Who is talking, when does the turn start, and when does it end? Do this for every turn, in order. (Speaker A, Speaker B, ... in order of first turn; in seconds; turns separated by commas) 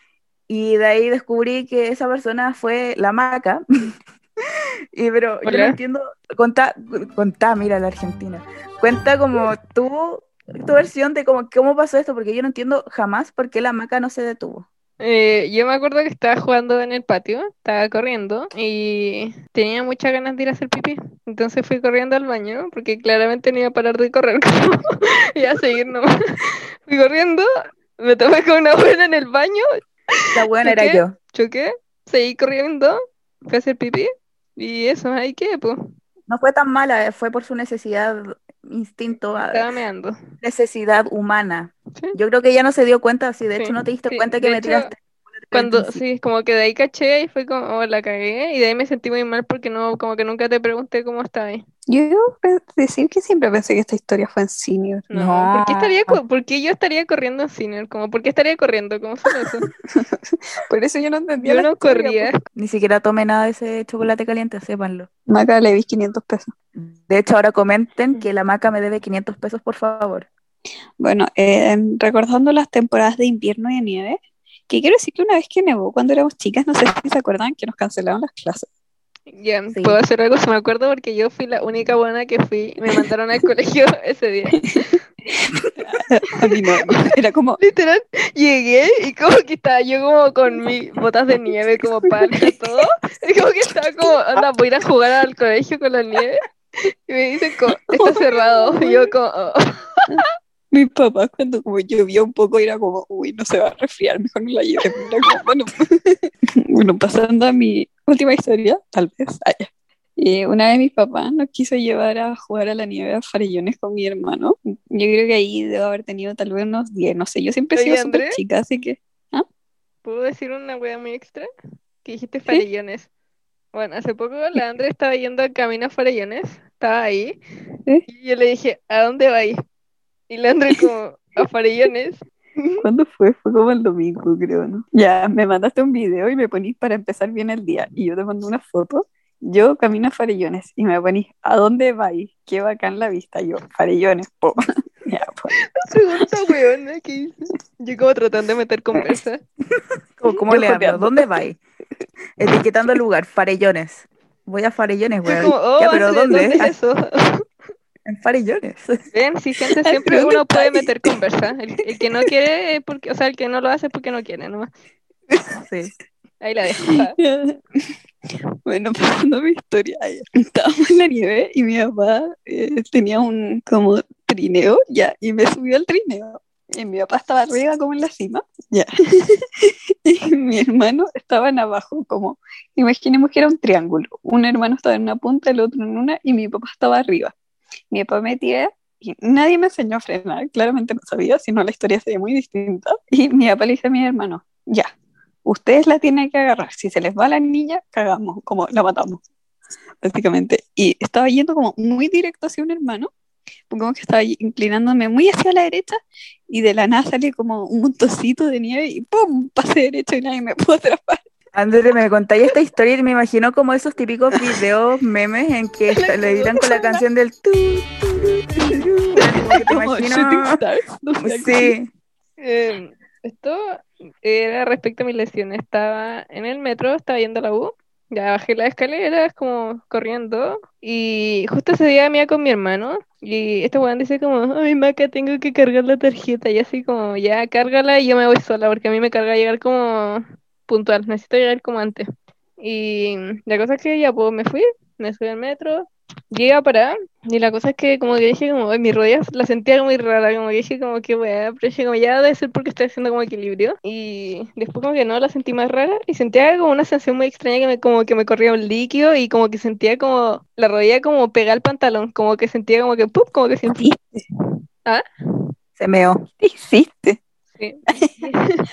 Speaker A: 0.5-3.6, Speaker A: 4.9-14.7, Speaker B: 5.4-5.8, Speaker B: 15.0-26.1, Speaker B: 26.8-27.4, Speaker B: 28.0-29.7, Speaker A: 30.3-31.1, Speaker B: 30.5-35.9, Speaker A: 36.3-39.6, Speaker B: 39.4-40.1, Speaker A: 40.4-46.0, Speaker B: 43.6-44.9, Speaker B: 45.5-51.6, Speaker C: 51.9-55.1, Speaker B: 55.1-59.6, Speaker A: 55.1-56.2, Speaker C: 59.9-62.3, Speaker B: 61.4-62.4, Speaker A: 62.5-65.1, Speaker C: 65.3-66.5, Speaker A: 66.8-70.3, Speaker C: 71.0-78.7, Speaker B: 79.3-84.6, Speaker A: 79.7-80.0, Speaker C: 85.3-87.6, Speaker B: 87.6-96.4, Speaker B: 97.1-100.2, Speaker C: 98.7-99.1, Speaker C: 100.7-119.4, Speaker B: 117.8-118.4, Speaker B: 120.0-121.5, Speaker B: 122.0-123.1, Speaker B: 123.7-127.4, Speaker B: 128.1-129.6, Speaker B: 130.3-132.8, Speaker C: 132.8-145.6, Speaker B: 145.8-149.4, Speaker A: 150.2-151.6, Speaker C: 150.5-151.2, Speaker A: 152.4-156.7, Speaker B: 155.3-157.4, Speaker A: 158.1-159.0, Speaker B: 159.1-164.7, Speaker C: 159.8-161.1, Speaker A: 165.6-165.9, Speaker B: 166.4-167.2, Speaker C: 166.9-167.8, Speaker C: 168.7-187.3, Speaker C: 187.9-194.9, Speaker C: 195.4-199.2, Speaker C: 200.0-203.1, Speaker C: 203.7-211.2, Speaker A: 211.6-220.6, Speaker B: 216.1-216.7, Speaker C: 218.6-221.7, Speaker A: 221.2-221.9, Speaker B: 222.4-242.1, Speaker B: 242.6-263.9, Speaker C: 263.7-264.2, Speaker A: 265.8-266.2, Speaker C: 266.4-267.2, Speaker B: 267.6-268.5, Speaker C: 267.9-268.3